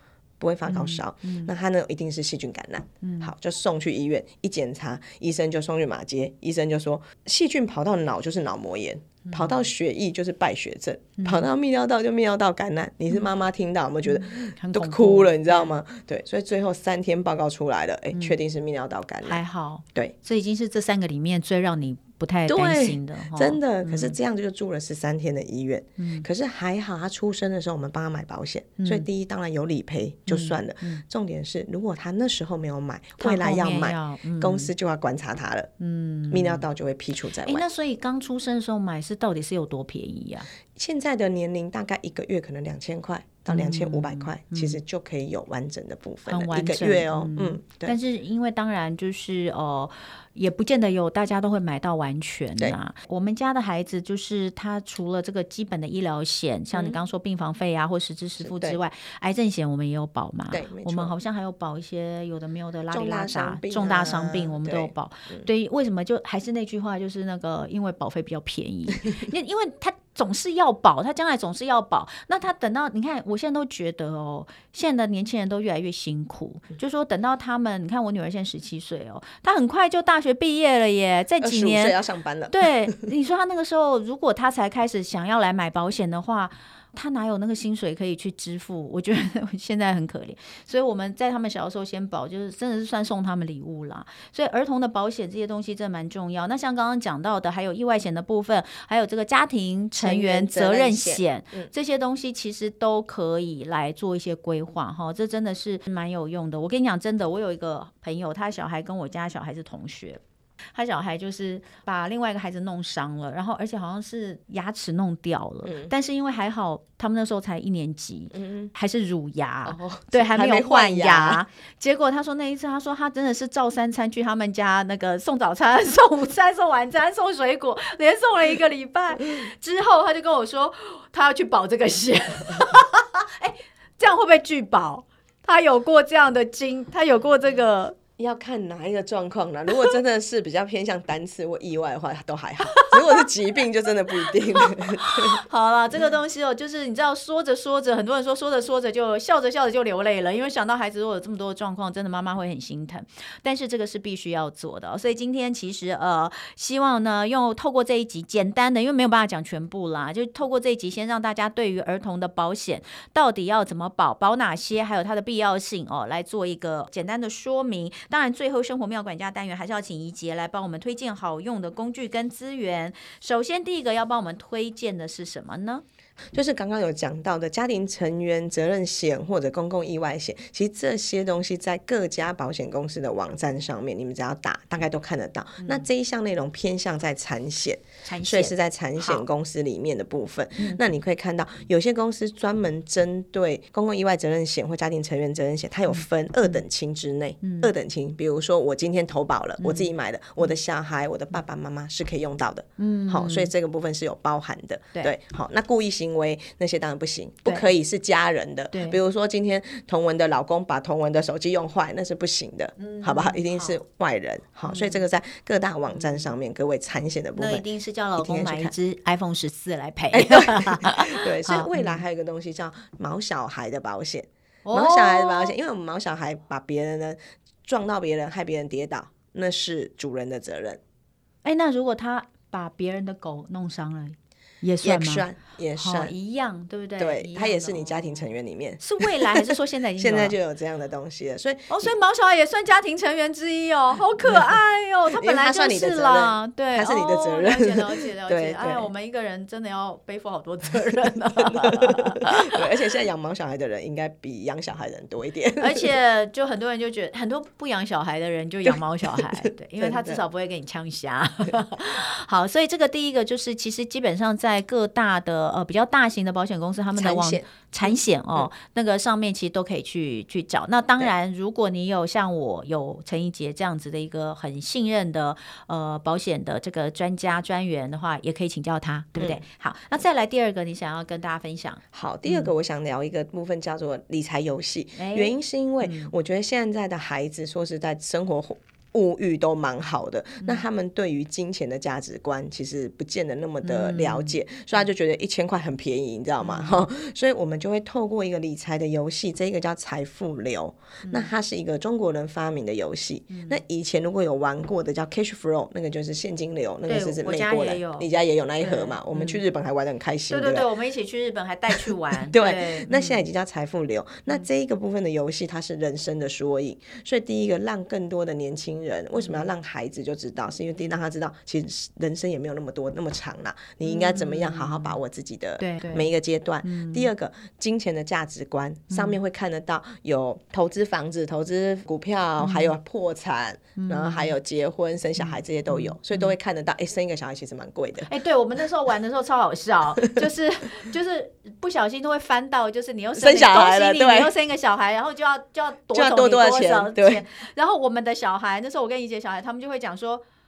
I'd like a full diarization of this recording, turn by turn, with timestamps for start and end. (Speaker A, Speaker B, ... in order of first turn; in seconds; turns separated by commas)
Speaker A: 0.4-19.4, Speaker B: 0.7-1.5, Speaker B: 3.0-3.3, Speaker B: 9.2-9.7, Speaker B: 11.2-11.5, Speaker B: 14.1-15.7, Speaker B: 19.2-24.2, Speaker A: 22.5-35.7, Speaker B: 26.0-26.3, Speaker B: 28.8-29.1, Speaker B: 30.3-31.0, Speaker B: 33.2-34.7, Speaker B: 35.8-36.6, Speaker A: 36.3-37.7, Speaker B: 37.5-40.5, Speaker A: 40.8-48.0, Speaker B: 43.5-44.8, Speaker B: 46.3-82.0, Speaker A: 58.4-58.8, Speaker A: 60.5-61.1, Speaker A: 62.9-65.5, Speaker A: 81.4-83.0, Speaker B: 82.5-110.2, Speaker A: 100.0-101.7, Speaker B: 110.7-138.0, Speaker A: 115.7-115.9, Speaker A: 118.3-118.7, Speaker A: 119.7-121.4, Speaker A: 138.2-145.4, Speaker B: 142.7-143.2, Speaker B: 144.3-175.8, Speaker A: 176.3-217.7, Speaker B: 185.6-185.9, Speaker B: 188.1-189.2, Speaker B: 197.4-197.7, Speaker B: 199.6-199.9, Speaker B: 202.8-203.5, Speaker B: 208.7-209.0, Speaker B: 212.8-213.8, Speaker B: 214.7-215.0, Speaker B: 215.9-216.2, Speaker B: 217.4-222.0, Speaker A: 218.2-218.7, Speaker A: 220.1-230.8, Speaker B: 224.7-225.5, Speaker B: 231.4-238.2, Speaker A: 234.8-236.1, Speaker A: 237.0-241.9, Speaker B: 238.8-240.4, Speaker B: 241.7-252.7, Speaker A: 244.2-244.6, Speaker A: 245.1-248.9, Speaker A: 251.4-255.9, Speaker B: 255.6-282.5, Speaker A: 258.7-260.2, Speaker A: 267.0-268.5, Speaker A: 281.9-310.7, Speaker B: 285.0-286.1, Speaker B: 293.6-294.4, Speaker B: 296.4-296.9, Speaker B: 303.3-303.6, Speaker B: 306.9-308.1, Speaker B: 308.6-309.4, Speaker B: 310.3-313.2, Speaker A: 311.8-338.1, Speaker B: 323.8-325.0, Speaker B: 325.6-326.1, Speaker B: 326.6-327.1, Speaker B: 328.9-329.2, Speaker B: 332.4-332.7, Speaker B: 333.8-334.4, Speaker B: 335.2-336.3, Speaker B: 338.1-350.2, Speaker A: 343.2-344.3, Speaker A: 345.9-347.2